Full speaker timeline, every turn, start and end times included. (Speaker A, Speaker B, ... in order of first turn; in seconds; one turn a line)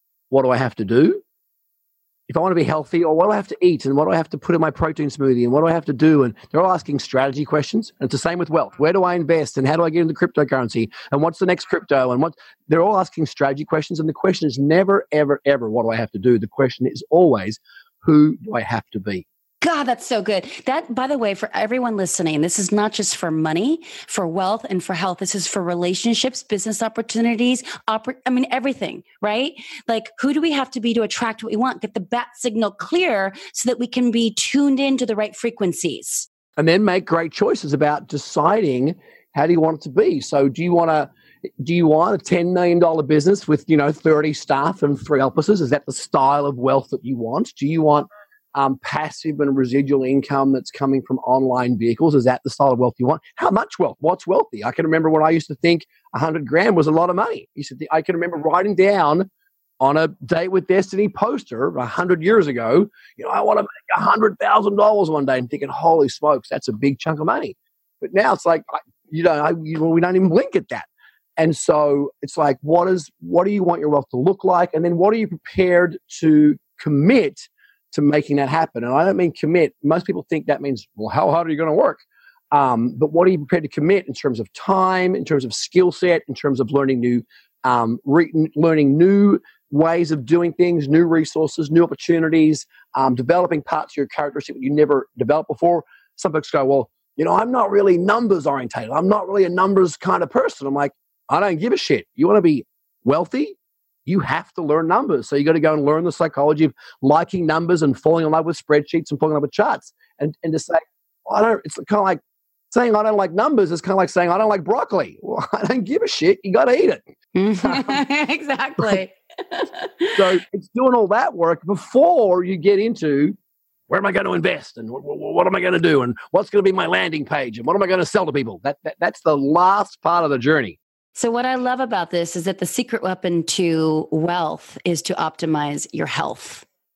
Speaker A: 0.3-1.2
Speaker A: 2.3-19.2
Speaker B: 19.6-36.3
Speaker A: 36.6-41.1
Speaker A: 41.6-59.3
Speaker A: 59.8-70.9
Speaker A: 71.4-82.0
Speaker A: 82.5-117.0
Speaker B: 117.4-120.1
Speaker A: 117.6-118.0
Speaker A: 120.2-123.4
Speaker A: 123.9-130.8
Speaker B: 131.2-136.6